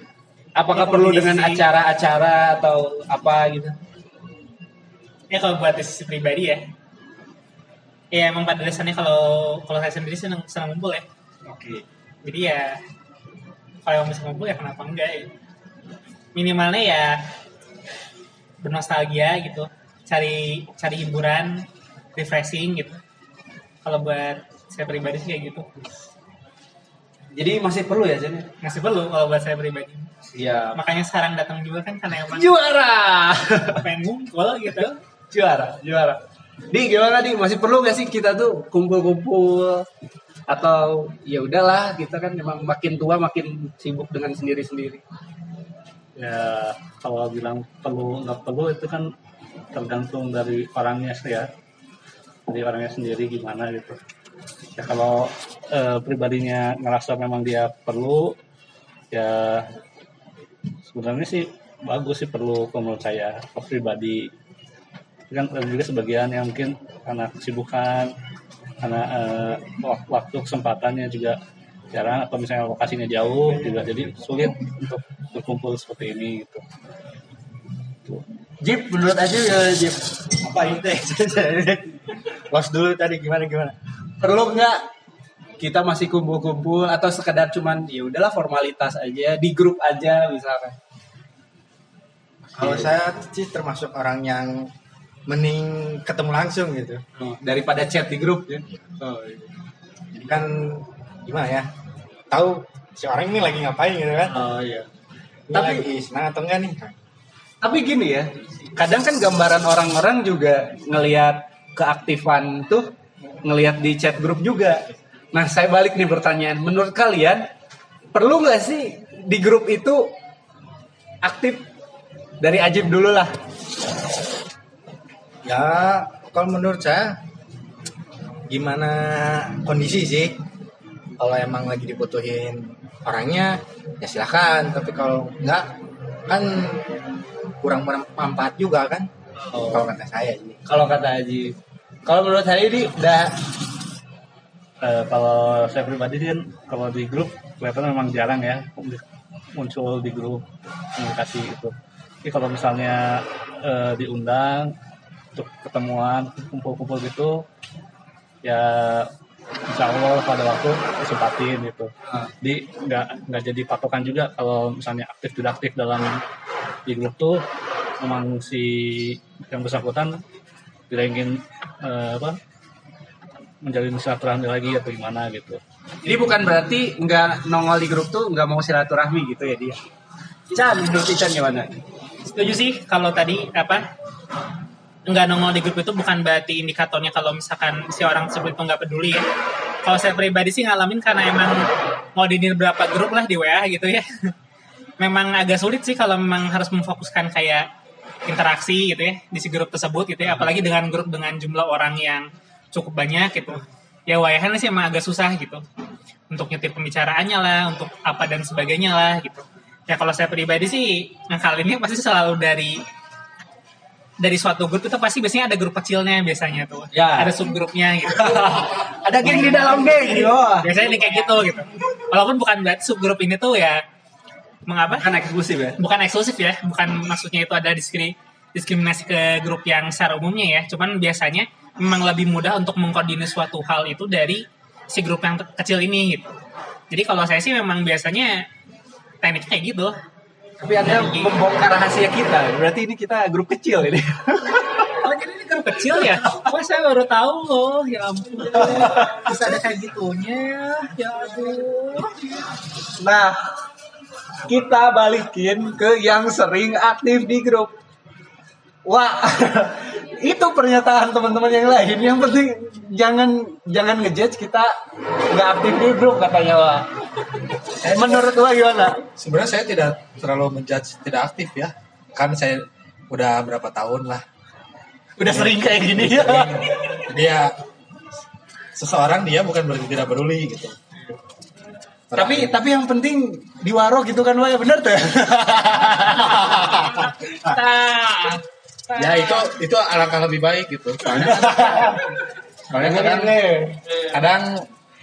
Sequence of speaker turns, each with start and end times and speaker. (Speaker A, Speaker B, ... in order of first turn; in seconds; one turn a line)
Speaker A: 0.6-3.8
Speaker B: 0.7-1.6
Speaker B: 5.3-6.6
Speaker B: 8.1-11.0
Speaker A: 11.4-11.8
Speaker B: 12.2-12.8
Speaker B: 13.8-15.3
Speaker B: 16.3-17.2
Speaker B: 18.6-23.0
Speaker B: 23.8-25.7
Speaker A: 27.3-28.5
Speaker B: 28.6-30.1
Speaker A: 30.3-30.8
Speaker B: 30.7-32.5
Speaker A: 32.3-33.8
Speaker B: 33.8-35.0
Speaker A: 35.3-39.9
Speaker A: 40.5-45.0
Speaker C: 46.1-49.1
Speaker C: 49.7-51.5
Speaker C: 52.5-54.0
Speaker C: 54.7-58.4
Speaker C: 59.1-59.7
Speaker C: 60.9-64.3
Speaker C: 65.3-68.1
Speaker C: 68.8-71.4
Speaker C: 71.9-76.6
Speaker A: 78.6-80.2
Speaker D: 80.3-83.7
Speaker A: 84.2-84.8
Speaker A: 85.6-90.8
Speaker D: 92.5-94.7
Speaker A: 92.6-92.9
Speaker D: 95.3-97.0
Speaker A: 97.2-99.5
Speaker D: 100.1-101.7
Speaker D: 102.3-104.4
Speaker A: 104.3-104.9
Speaker D: 105.5-107.0
Speaker A: 105.5-105.8
Speaker A: 107.6-112.9
Speaker A: 113.4-117.5
Speaker A: 118.1-120.1
Speaker A: 121.2-121.7
Speaker A: 122.4-123.3
Speaker D: 125.4-127.2
Speaker D: 128.5-130.4
Speaker D: 131.2-135.7
Speaker D: 136.3-136.9
Speaker D: 137.6-139.1
Speaker A: 139.5-139.9
Speaker D: 139.7-140.6
Speaker A: 140.7-143.4
Speaker C: 144.8-149.0
Speaker C: 149.5-150.4
Speaker C: 150.9-154.7
Speaker C: 155.3-157.4
Speaker C: 158.4-159.1
Speaker C: 159.7-166.2
Speaker C: 166.9-167.4
Speaker C: 168.0-170.2
Speaker C: 170.9-172.4
Speaker C: 173.6-175.6
Speaker A: 176.0-179.8
Speaker A: 180.5-181.8
Speaker B: 182.2-183.9
Speaker B: 185.1-189.2
Speaker B: 189.8-194.3
Speaker B: 195.0-197.7
Speaker B: 198.2-205.6
Speaker B: 206.3-212.8
Speaker B: 214.2-218.7
Speaker A: 216.9-217.3
Speaker A: 218.2-220.7
Speaker B: 219.2-223.8
Speaker B: 224.7-225.1
Speaker A: 225.0-225.8
Speaker B: 225.8-236.3
Speaker B: 236.9-238.4
Speaker B: 239.2-239.9
Speaker A: 240.6-244.9
Speaker B: 240.8-241.3
Speaker B: 244.9-252.5
Speaker A: 248.6-249.2
Speaker A: 253.0-253.4
Speaker A: 254.4-257.7
Speaker A: 258.8-264.7
Speaker A: 265.3-266.9
Speaker A: 267.7-269.0
Speaker E: 267.9-268.3
Speaker E: 269.1-274.2
Speaker A: 275.2-276.7
Speaker E: 275.2-277.5
Speaker E: 278.7-280.7
Speaker E: 282.1-282.5
Speaker A: 282.1-286.6
Speaker E: 286.2-287.0
Speaker B: 286.9-288.3
Speaker E: 288.9-292.0
Speaker A: 291.1-292.1
Speaker E: 292.7-293.4
Speaker A: 292.7-293.8
Speaker E: 294.0-294.6